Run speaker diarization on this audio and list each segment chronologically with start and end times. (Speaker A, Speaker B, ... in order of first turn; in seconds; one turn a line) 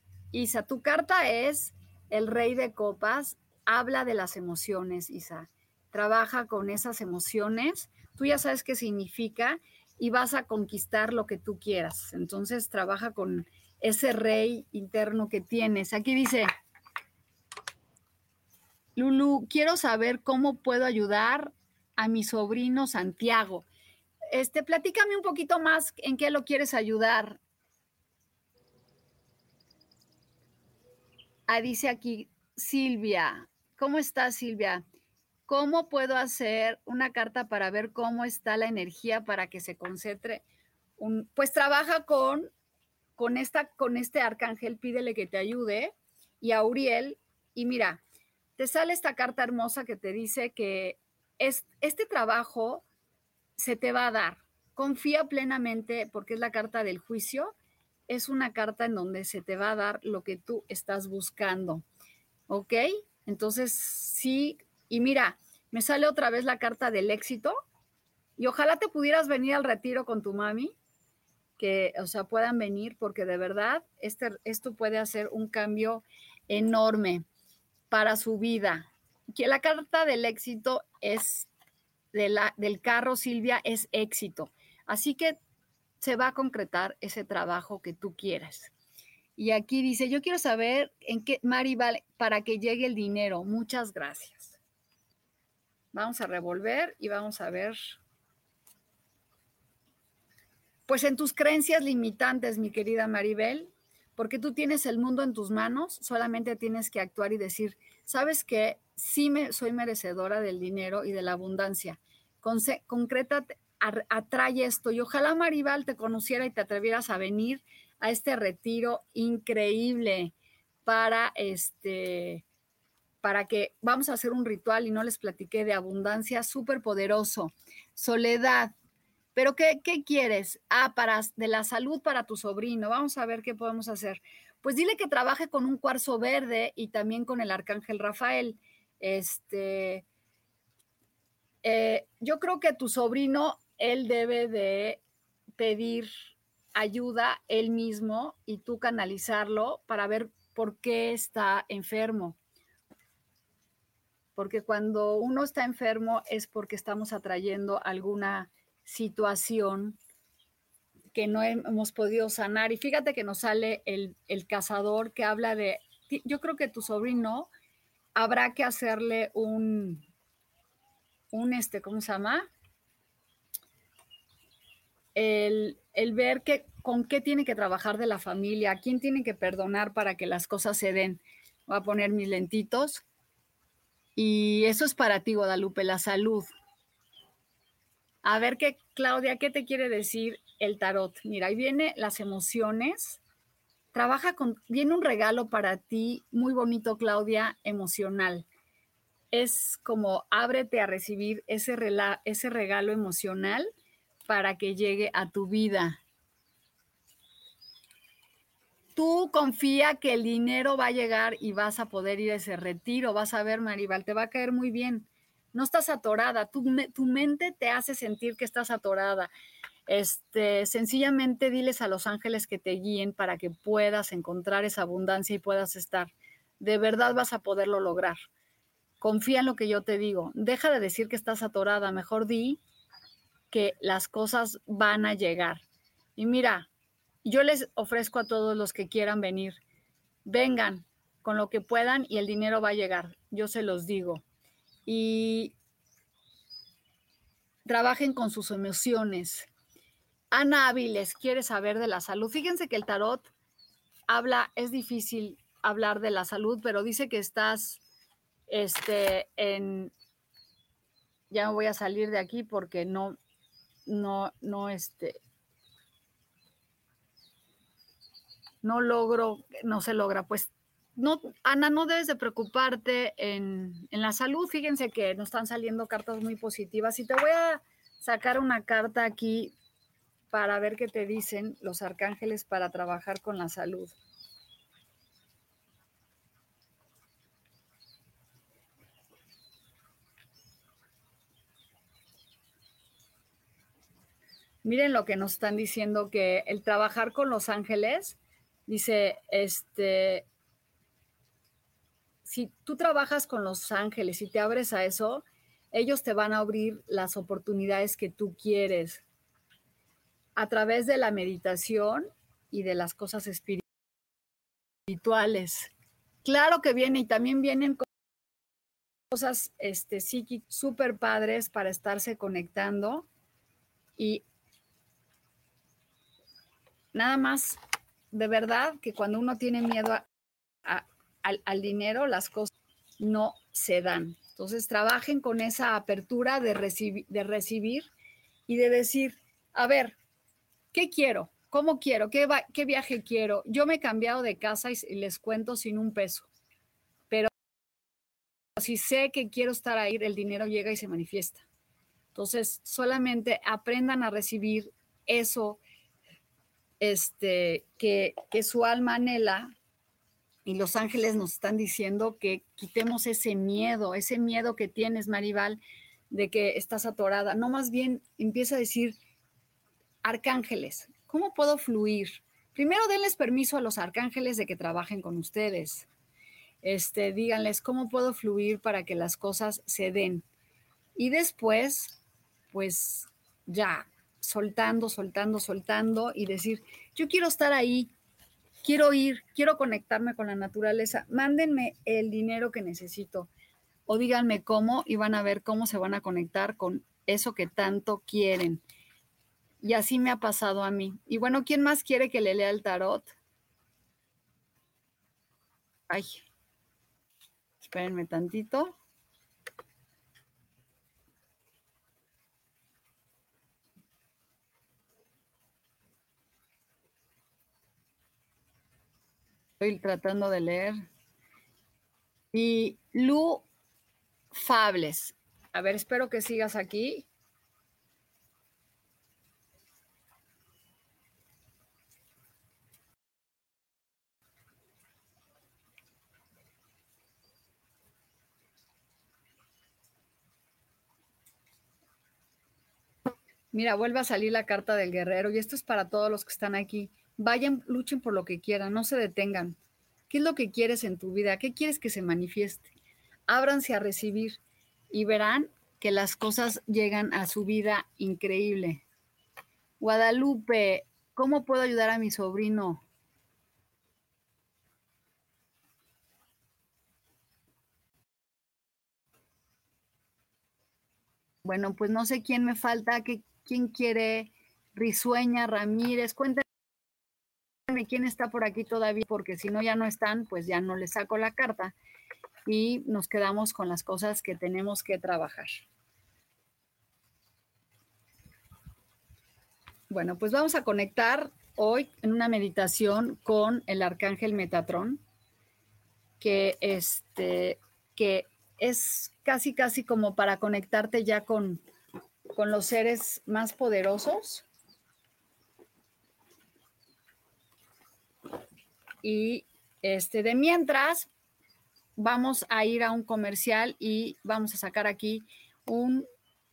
Speaker A: 0.3-16.5
Speaker A: 18.9-23.6
Speaker A: 24.3-27.4
Speaker A: 31.5-34.8
Speaker A: 35.5-40.4
Speaker A: 41.0-42.5
Speaker A: 43.2-48.0
Speaker A: 48.6-52.8
Speaker A: 53.6-57.5
Speaker A: 58.1-61.8
Speaker A: 62.5-67.5
Speaker A: 68.4-70.7
Speaker A: 71.6-77.2
Speaker A: 77.9-81.5
Speaker A: 82.1-85.4
Speaker A: 86.0-88.7
Speaker A: 89.4-94.6
Speaker A: 95.9-98.0
Speaker A: 100.9-120.3
Speaker A: 120.8-122.4
Speaker A: 123.2-128.7
Speaker A: 129.3-140.0
Speaker A: 141.6-145.0
Speaker A: 145.6-146.1
Speaker A: 146.8-152.4
Speaker A: 154.3-160.0
Speaker A: 161.1-167.5
Speaker A: 168.2-170.1
Speaker A: 171.3-172.5
Speaker A: 175.1-183.0
Speaker A: 184.2-186.5
Speaker A: 188.2-193.2
Speaker A: 193.9-198.4
Speaker A: 199.3-203.7
Speaker A: 204.3-206.0
Speaker A: 208.9-219.3
Speaker A: 219.9-228.2
Speaker A: 229.0-232.6
Speaker A: 233.5-235.6
Speaker A: 236.2-236.7
Speaker A: 237.2-239.6
Speaker A: 240.2-244.2
Speaker A: 244.8-245.5
Speaker A: 247.7-249.5
Speaker A: 250.3-253.3
Speaker A: 254.1-257.8
Speaker A: 258.5-259.9
Speaker A: 261.3-263.2
Speaker A: 263.9-265.2
Speaker A: 268.6-279.5
Speaker A: 280.3-283.9
Speaker A: 294.6-300.2
Speaker A: 302.2-309.0
Speaker A: 310.4-313.6
Speaker A: 314.9-315.7
Speaker A: 316.2-317.9
Speaker A: 319.1-323.1
Speaker A: 324.0-324.2
Speaker A: 326.9-327.6
Speaker A: 328.1-330.1
Speaker A: 330.6-337.9
Speaker A: 338.5-340.0
Speaker A: 340.7-346.3
Speaker A: 348.6-351.4
Speaker A: 352.1-355.6
Speaker A: 356.8-359.5
Speaker A: 360.4-369.0
Speaker A: 370.0-375.9
Speaker A: 376.6-380.2
Speaker A: 380.9-381.9
Speaker A: 382.5-387.9
Speaker A: 388.6-393.3
Speaker A: 393.9-398.6
Speaker A: 399.6-403.1
Speaker A: 405.9-406.2
Speaker A: 407.6-408.7
Speaker A: 419.6-420.8
Speaker A: 422.3-423.4
Speaker A: 424.3-427.1
Speaker A: 443.5-449.6
Speaker A: 450.1-452.7
Speaker A: 453.3-454.4
Speaker A: 454.9-458.8
Speaker A: 459.8-462.8
Speaker A: 471.4-476.5
Speaker A: 477.7-481.7
Speaker A: 482.4-485.6
Speaker A: 489.9-495.0
Speaker A: 496.2-501.6
Speaker A: 502.3-504.4
Speaker A: 509.0-511.1
Speaker A: 512.0-516.0